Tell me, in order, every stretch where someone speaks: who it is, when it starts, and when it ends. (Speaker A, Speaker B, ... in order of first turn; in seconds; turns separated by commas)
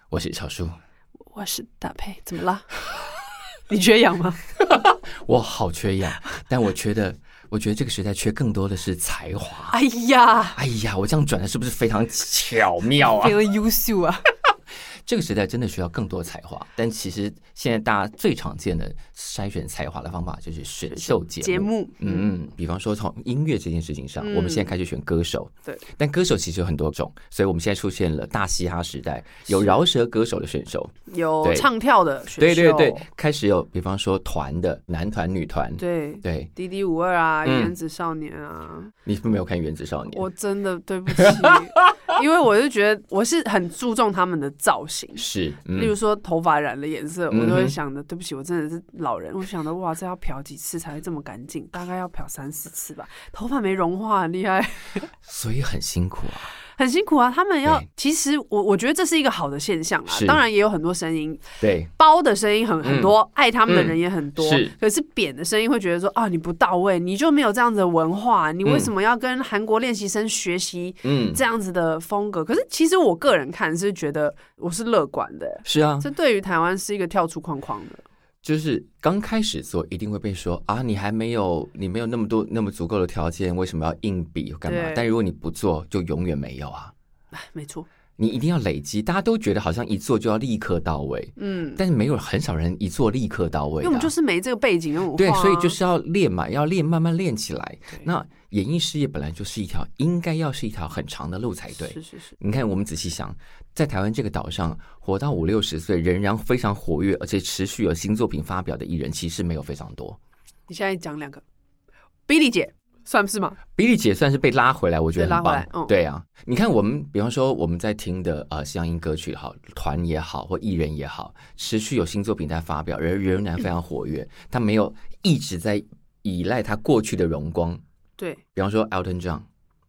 Speaker A: 0.1-0.8, Speaker B: 1.3-2.7, Speaker B: 3.7-4.4, Speaker A: 4.6-9.8, Speaker B: 9.7-10.6, Speaker A: 10.6-13.3, Speaker B: 13.0-14.3, Speaker A: 15.0-31.7, Speaker B: 20.9-22.3, Speaker B: 24.2-24.7, Speaker B: 29.5-29.8, Speaker B: 31.1-33.0, Speaker A: 32.4-36.5, Speaker B: 35.8-38.9, Speaker A: 37.4-37.7, Speaker A: 39.0-40.2, Speaker B: 40.1-55.1, Speaker A: 41.1-42.0, Speaker A: 45.2-45.9, Speaker A: 47.3-47.8, Speaker A: 55.2-56.5, Speaker B: 56.7-61.4, Speaker A: 60.1-60.4, Speaker A: 61.6-61.9, Speaker B: 62.0-78.0, Speaker A: 62.8-63.1, Speaker A: 63.7-64.7, Speaker A: 71.0-71.4, Speaker A: 75.6-76.1, Speaker A: 78.4-86.9, Speaker B: 84.7-85.1, Speaker B: 87.3-87.9, Speaker A: 88.2-94.1, Speaker B: 91.4-91.8, Speaker B: 93.8-95.8, Speaker A: 95.2-110.2, Speaker B: 101.8-102.3, Speaker B: 110.7-111.4, Speaker B: 112.3-113.6, Speaker A: 113.8-127.8, Speaker B: 115.2-115.9, Speaker A: 128.5-129.5